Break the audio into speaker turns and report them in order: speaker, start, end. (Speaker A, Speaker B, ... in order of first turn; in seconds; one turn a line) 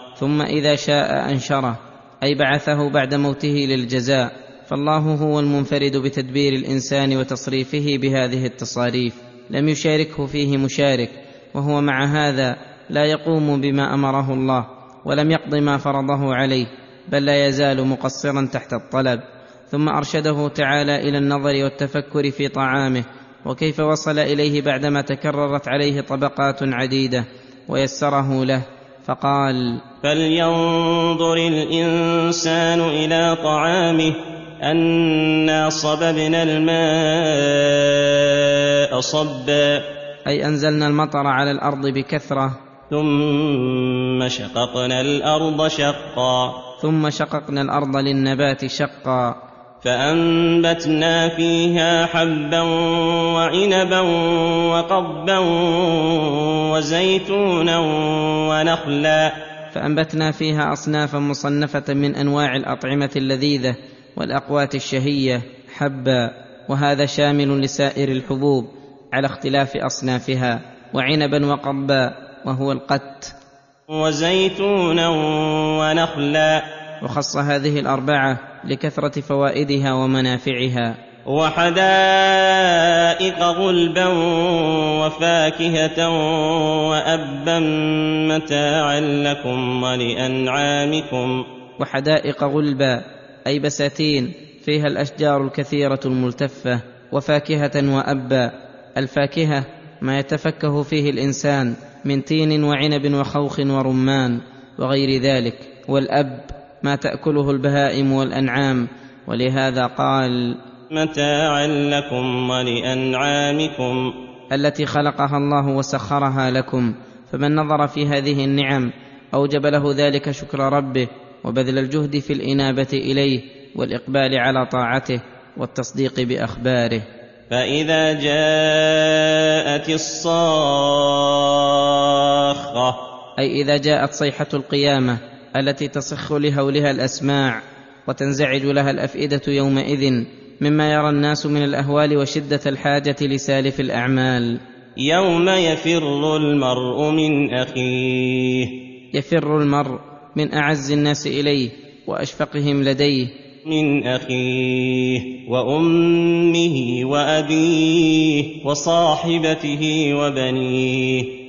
Speaker A: 0.2-29.8
Speaker B: 30.0-38.4
Speaker B: 38.9-39.8
Speaker A: 40.3-42.6
Speaker B: 42.9-46.5
Speaker A: 46.8-49.4
Speaker B: 49.8-59.3
Speaker A: 59.7-73.3
Speaker B: 73.9-76.6
Speaker A: 77.0-81.0
Speaker B: 81.3-91.4
Speaker A: 91.8-110.6
Speaker B: 110.9-114.0
Speaker A: 114.5-127.0
Speaker B: 127.5-133.0
Speaker A: 133.4-144.6
Speaker B: 145.0-148.7
Speaker A: 149.1-153.3
Speaker B: 153.7-161.3